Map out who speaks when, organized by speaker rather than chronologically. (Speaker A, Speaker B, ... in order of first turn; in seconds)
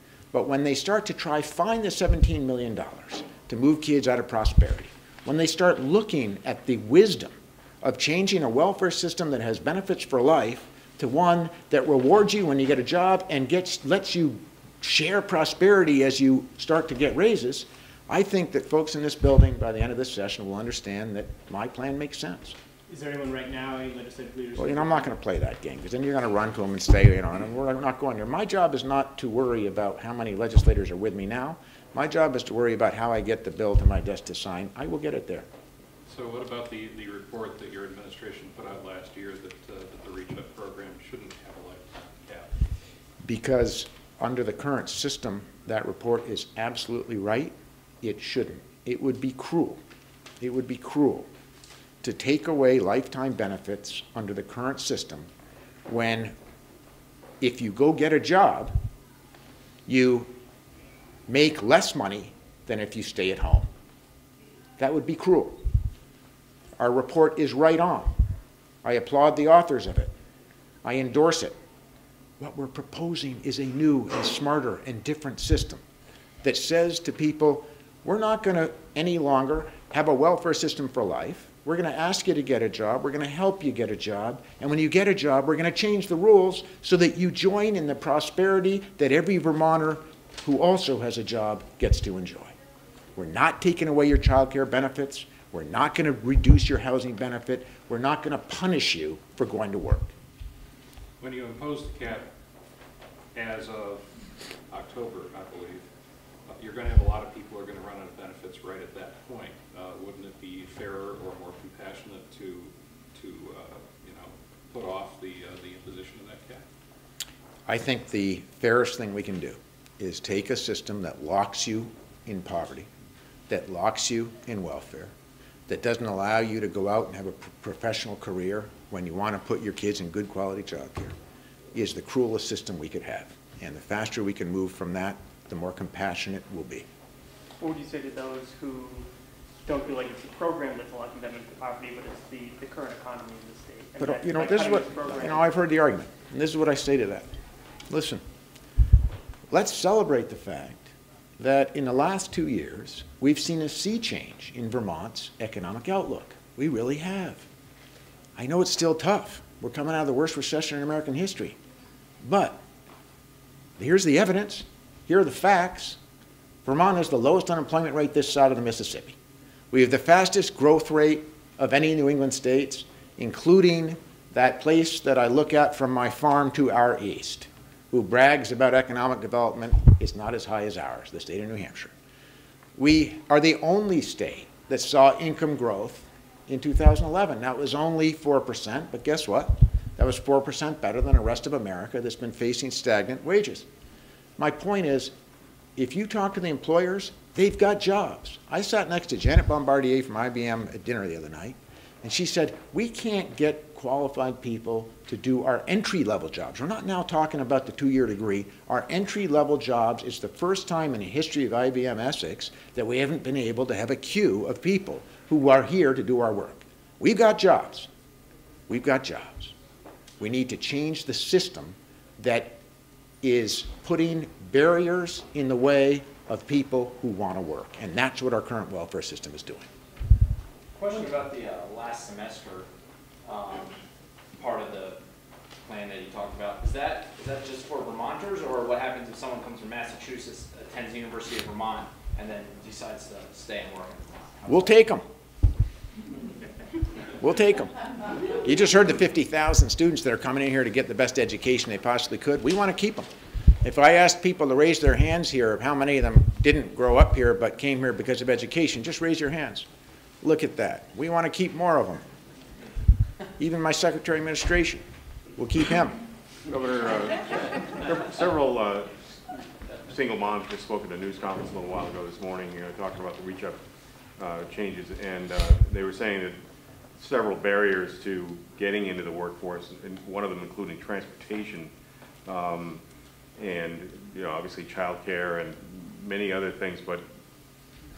Speaker A: 0.3-22.6, 24.6-35.5, 43.2-49.8, 50.4-51.3, 52.0-55.3, 55.9-56.4, 57.4-58.8, 59.9-60.3, 61.3-63.7, 64.8-65.6, 66.8-68.1, 68.8-70.1, 70.8-71.5, 72.4-75.8, 76.4-92.5, 93.2-100.1, 117.7-122.9, 123.5-125.1, 125.7-131.2, 131.7-136.9, 144.0-147.3, 147.9-148.2, 149.5-157.5, 158.4-161.6, 162.2-162.6, 163.8-166.0, 166.7-169.2, 169.7-181.9, 182.8-193.7, 194.4-195.1, 195.8-217.9, 218.7-219.5, 220.2-222.6, 223.2-229.7, 244.5-245.1, 247.2-247.8, 248.4-253.1, 253.6-259.7, 260.2-262.0, 263.4-264.8, 265.4-266.0
Speaker B: 22.9-25.1
Speaker C: 36.1-42.5, 101.2-102.3, 103.3-104.1, 104.7-105.9, 106.5-116.6
Speaker D: 137.6-139.1, 139.7-145.5
Speaker E: 230.8-232.7, 233.2-233.8, 234.4-235.0, 235.6-244.7
Speaker F: 266.5-269.0, 269.8-273.6, 274.2-276.4, 277.0-281.7, 282.2-282.8, 283.4-287.1